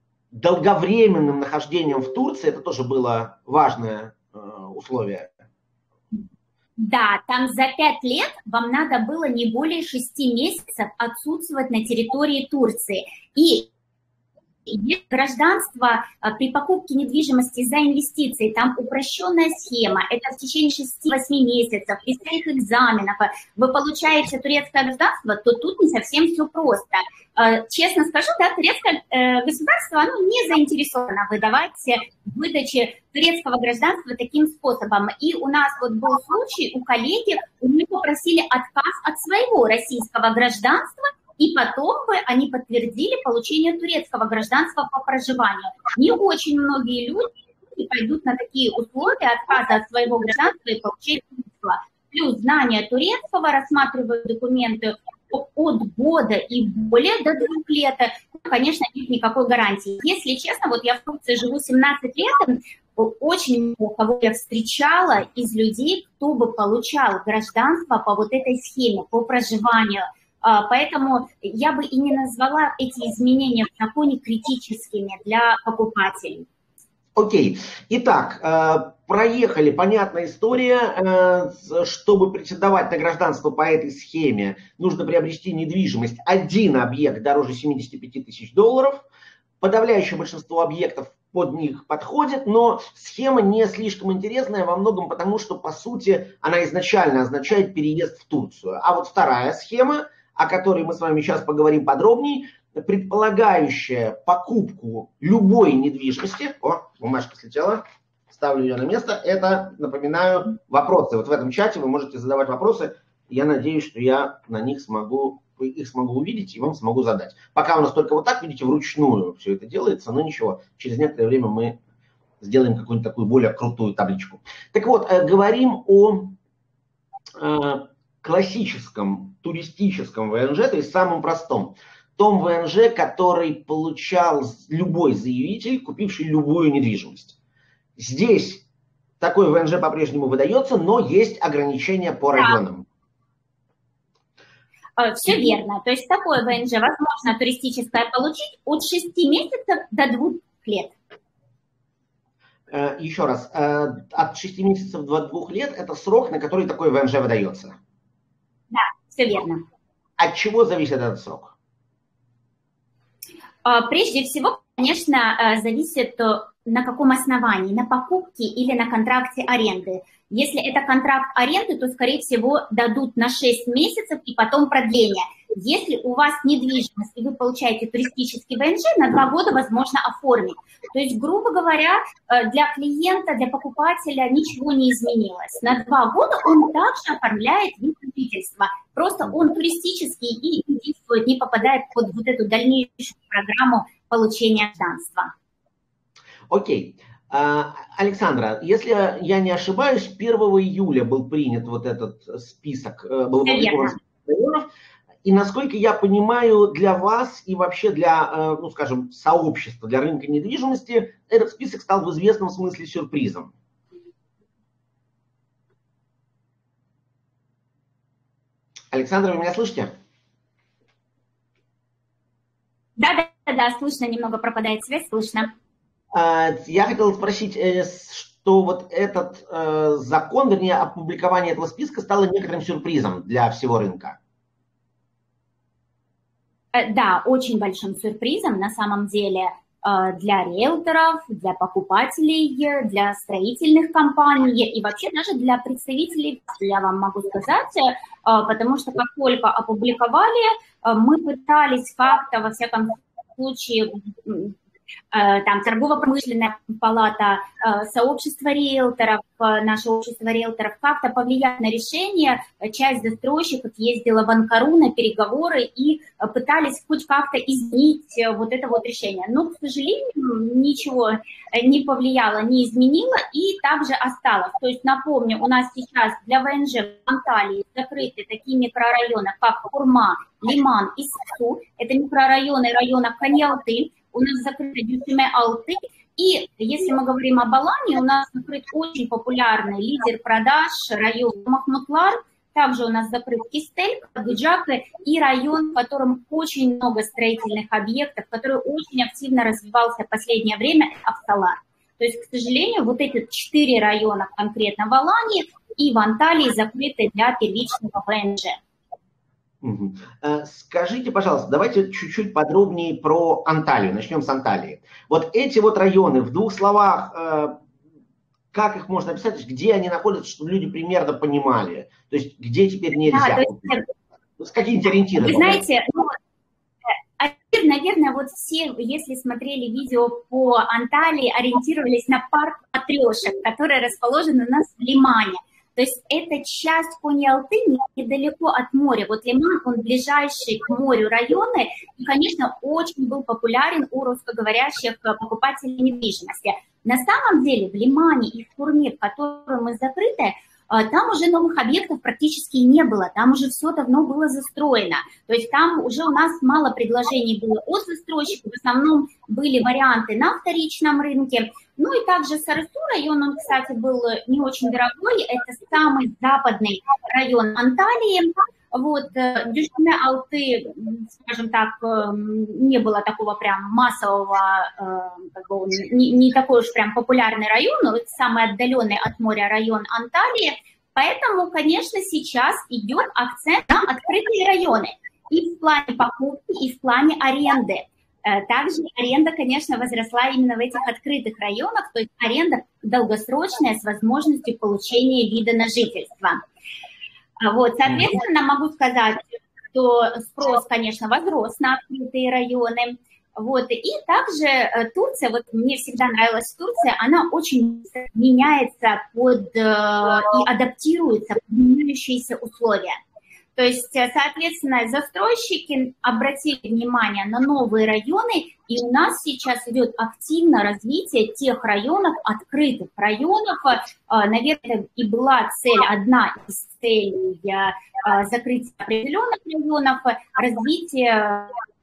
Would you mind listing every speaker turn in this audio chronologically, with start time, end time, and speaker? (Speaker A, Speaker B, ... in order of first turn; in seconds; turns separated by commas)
Speaker A: 0.3-5.3, Speaker B: 6.8-13.7, Speaker B: 14.7-76.5, Speaker A: 77.2-89.0, Speaker A: 89.6-121.8, Speaker A: 122.4-126.4, Speaker A: 127.4-137.3, Speaker A: 138.0-138.6, Speaker A: 139.2-142.8, Speaker B: 145.0-150.9, Speaker A: 152.7-157.8, Speaker B: 158.7-159.6, Speaker A: 160.2-161.5, Speaker B: 163.7-195.3, Speaker A: 196.5-204.7, Speaker B: 203.4-204.0, Speaker A: 205.2-213.5, Speaker A: 218.9-219.9, Speaker B: 223.0-225.5, Speaker A: 226.1-234.2, Speaker B: 236.7-254.6, Speaker B: 255.1-308.6, Speaker A: 309.6-317.6, Speaker A: 318.5-323.8, Speaker B: 323.0-323.9, Speaker A: 324.4-325.6, Speaker B: 325.2-326.2, Speaker B: 327.2-396.4, Speaker B: 397.4-413.0, Speaker B: 413.6-431.5